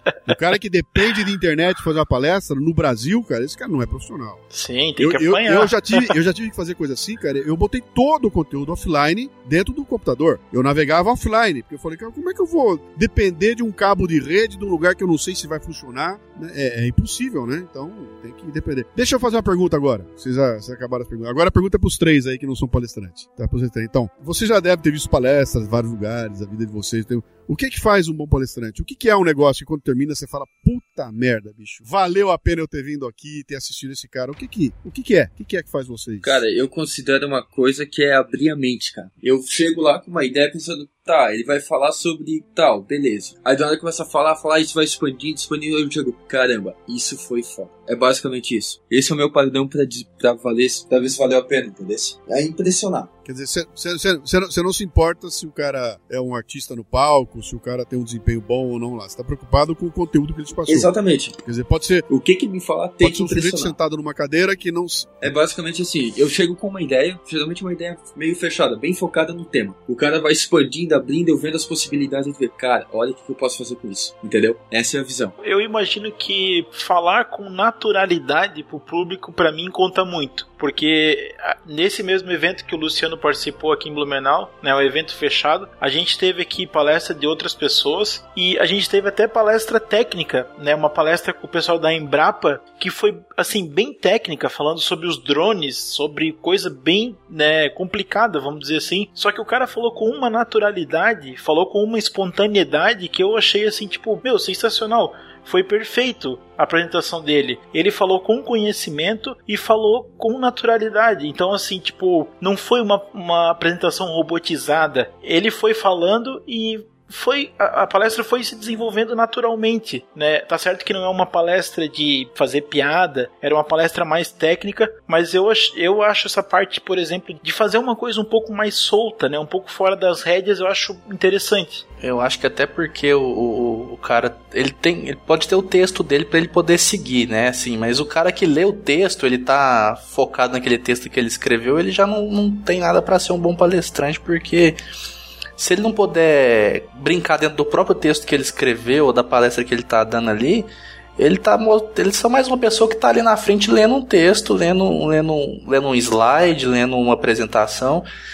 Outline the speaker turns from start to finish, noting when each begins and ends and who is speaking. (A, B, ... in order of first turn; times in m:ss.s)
0:00.3-0:04.4 A
0:04.5-0:06.1 B
0:05.0-0:36.4 A
0:36.2-0:53.1 C
0:53.2-1:00.9 A
1:00.7-1:01.4 C
1:01.4-1:02.1 A
1:02.1-1:03.8 C
1:03.0-1:05.3 A
1:05.2-1:15.4 C
1:15.4-2:11.8 B
2:12.0-2:24.8 D
2:25.6-2:38.1 D